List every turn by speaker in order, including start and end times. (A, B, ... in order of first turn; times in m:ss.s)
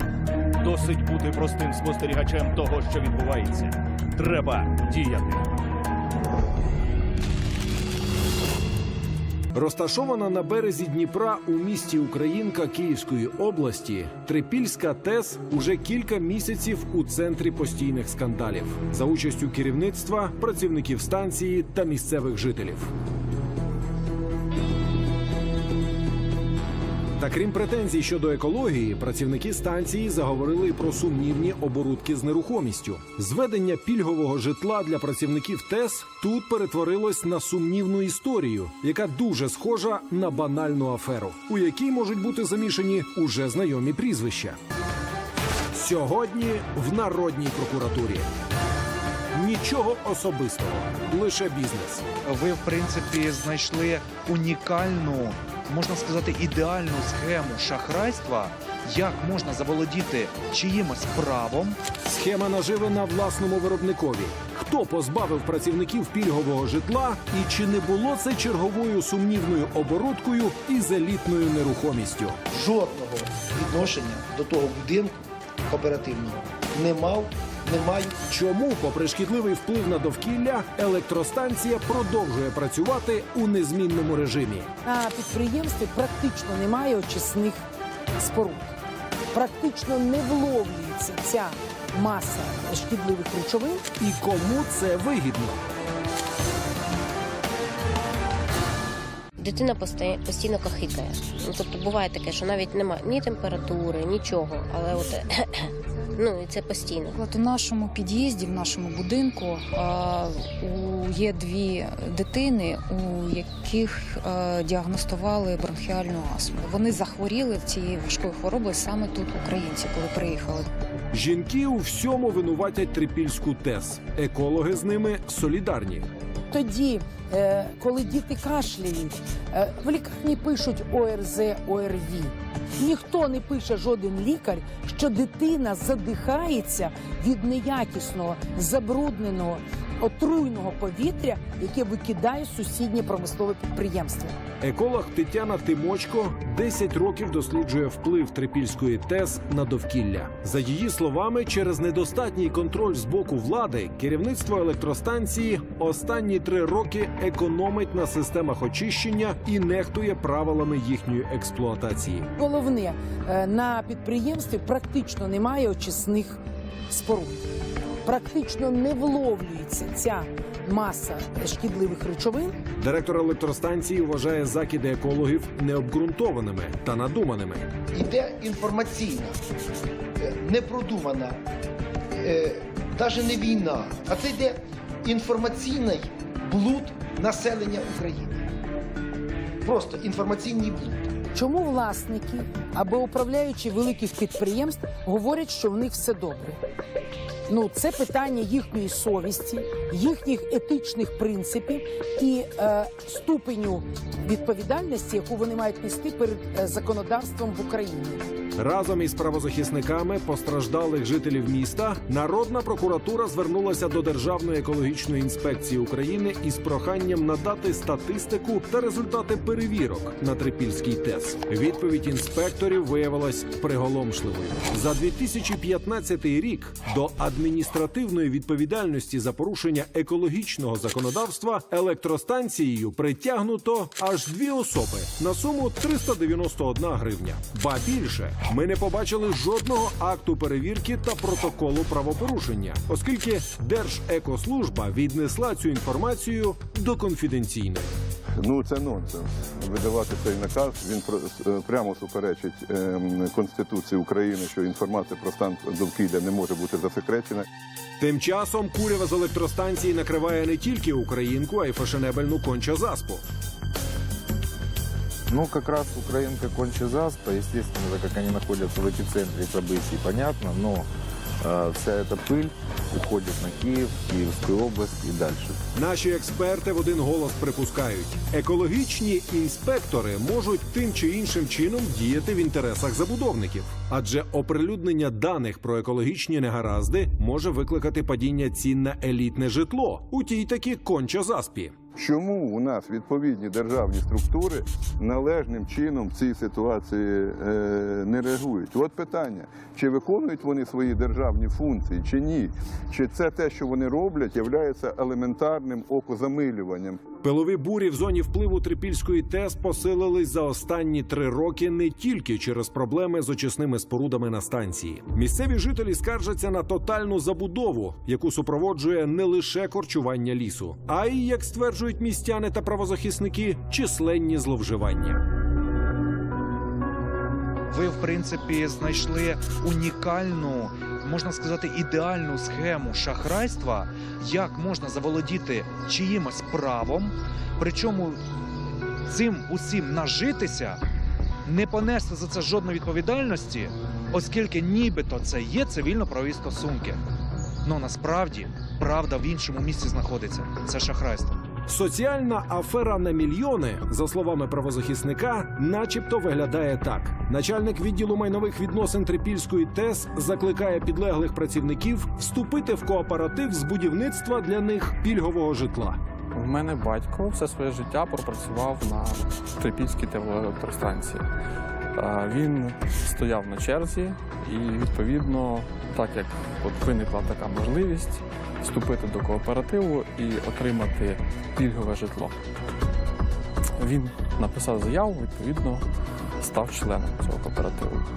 0:00.6-0:05.5 A
0:09.5-0:22.9 B
0:27.2-0:44.6 B
0:45.7-0:48.3 B
0:49.3-0:52.0 B
0:52.2-1:01.8 C
1:02.0-1:12.4 B
1:12.5-1:18.1 D
1:18.3-1:24.7 B
1:24.8-1:27.6 E
1:28.2-1:28.7 E
1:29.3-1:33.8 E
1:34.0-1:35.6 B
1:39.4-1:45.6 F
1:46.1-1:47.1 F
1:47.1-2:00.6 G
2:01.1-2:06.1 B
2:06.5-2:24.4 E
2:24.6-2:42.3 B
2:42.4-2:47.4 E
2:48.0-2:52.5 E
2:52.8-2:57.7 B
2:57.9-2:59.3 D
3:00.2-3:01.4 D
3:02.1-3:08.5 D
3:09.6-3:11.2 D
3:11.3-3:16.6 E
3:17.5-3:28.2 E
3:28.6-4:07.9 B
4:08.4-4:17.4 H
4:18.0-4:23.2 B
4:25.3-4:30.9 I
4:31.4-4:35.6 I
4:35.7-4:51.7 B
4:52.0-5:07.0 H
5:07.2-5:25.2 B
5:27.7-5:38.2 C
5:39.0-5:40.8 C
5:41.4-5:47.0 C
5:47.6-5:51.4 C
5:51.7-6:06.0 B
6:06.4-6:11.2 J
6:12.0-6:22.3 J
6:23.8-6:25.8 J
6:26.4-6:28.0 J